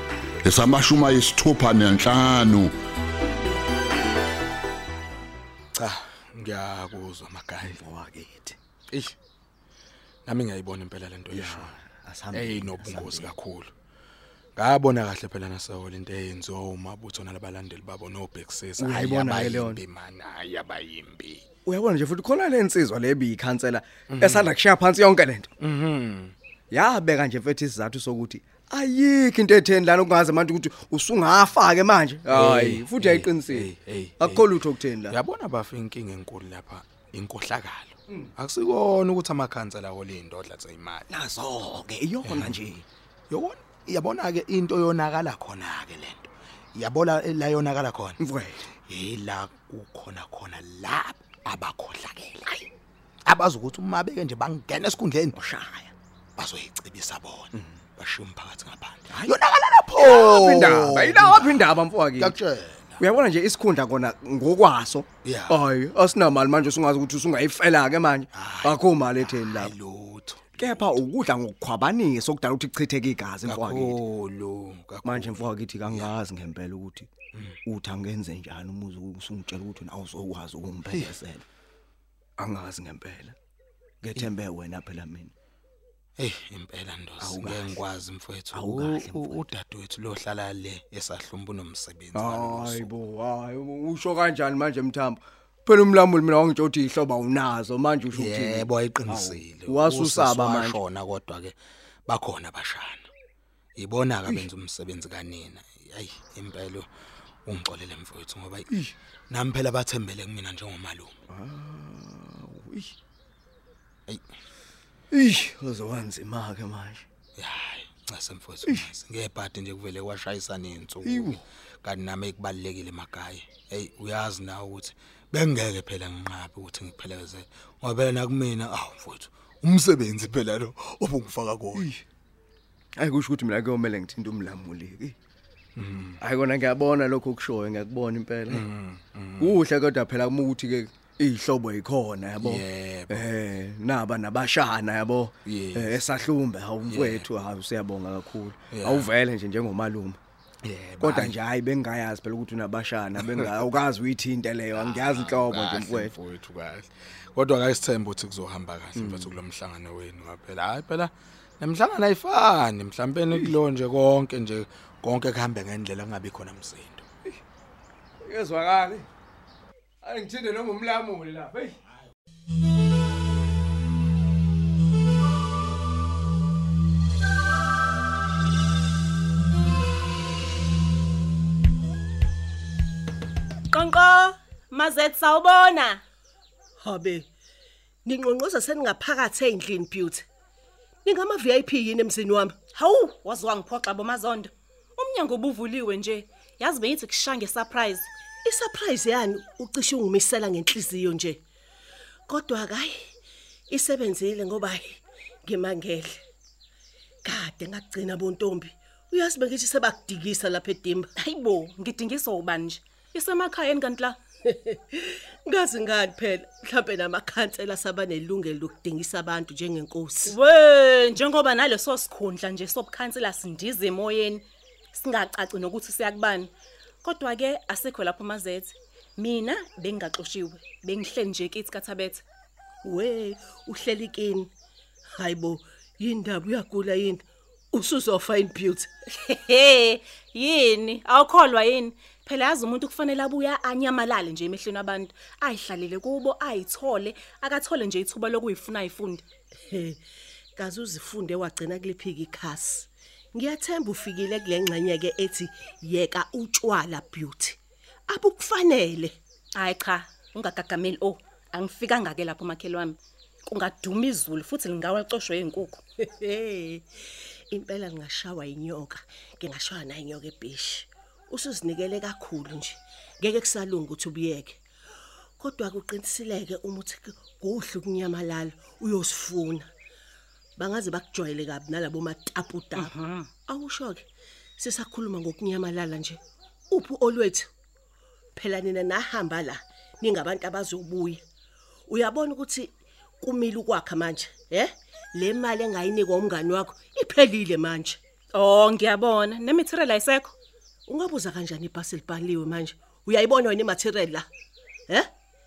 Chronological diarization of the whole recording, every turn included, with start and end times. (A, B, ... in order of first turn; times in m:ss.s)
0:00.4-0:02.8 A
0:05.7-0:07.8 B
0:07.7-0:08.6 C
0:10.2-0:11.8 B
0:11.3-0:13.3 C
0:12.3-0:13.7 B
0:14.6-0:21.4 B
0:18.8-0:19.8 C
0:21.6-0:25.5 C
0:24.1-0:24.5 B
0:25.6-0:26.3 B
0:26.7-0:35.2 C
0:32.3-0:41.1 B
0:41.1-0:42.8 C
0:42.3-0:42.6 B
0:43.3-0:48.2 B
0:48.2-0:48.7 C
0:48.9-0:52.7 B
0:53.2-0:55.4 B
0:55.3-0:55.9 C
0:56.4-1:03.0 B
0:59.1-0:59.3 C
0:59.9-1:02.4 C
1:03.0-1:09.7 C
1:05.2-1:05.6 B
1:08.3-1:10.9 B
1:10.6-1:14.0 C
1:13.4-1:16.1 B
1:15.0-1:17.1 C
1:17.6-1:21.4 C
1:22.4-1:23.4 C
1:24.0-1:25.3 C
1:26.2-1:32.9 B
1:27.2-1:27.8 C
1:28.5-1:29.5 C
1:32.1-1:40.8 C
1:38.1-1:43.1 B
1:43.8-1:46.9 B
1:47.4-1:48.7 B
1:49.3-1:51.1 B
1:51.3-1:52.9 C
1:55.1-1:57.0 C
1:57.4-2:11.9 B
1:58.6-1:58.9 C
2:01.0-2:01.4 C
2:11.7-2:12.0 C
2:13.0-2:15.2 C
2:15.8-2:16.2 B
2:16.2-2:18.7 C
2:18.5-2:19.6 B
2:19.4-2:30.2 C
2:22.4-2:23.3 B
2:25.4-2:26.0 B
2:26.8-2:27.3 B
2:28.7-2:29.1 B
2:30.6-2:31.4 B
2:31.0-2:36.2 C
2:33.2-2:33.5 B
2:34.8-2:47.0 B
2:38.9-2:39.4 C
2:48.2-2:49.1 C
2:50.0-2:51.8 C
3:03.7-3:06.0 D
3:06.8-3:07.3 E
3:08.0-3:10.2 E
3:11.0-3:12.6 E
3:12.7-3:18.1 D
3:18.4-3:21.4 E
3:22.3-3:23.1 E
3:23.7-3:26.2 E
3:27.2-3:31.1 E
3:31.2-3:34.2 D
3:34.4-3:40.4 E
3:40.3-3:52.2 D
3:52.8-3:54.5 E
3:55.2-3:58.9 E
3:59.2-4:09.2 D
4:09.7-4:10.0 E
4:10.6-4:17.6 E
4:18.1-4:19.2 E
4:19.5-4:25.8 D
4:26.0-4:26.9 E
4:27.5-4:34.6 E
4:35.4-4:39.7 E
4:40.6-4:42.9 E
4:42.8-4:43.3 D
4:43.5-4:44.0 E
4:44.6-4:47.5 E
4:48.3-4:51.2 E
4:51.9-4:58.0 E
4:58.3-5:00.3 D
5:00.9-5:04.3 E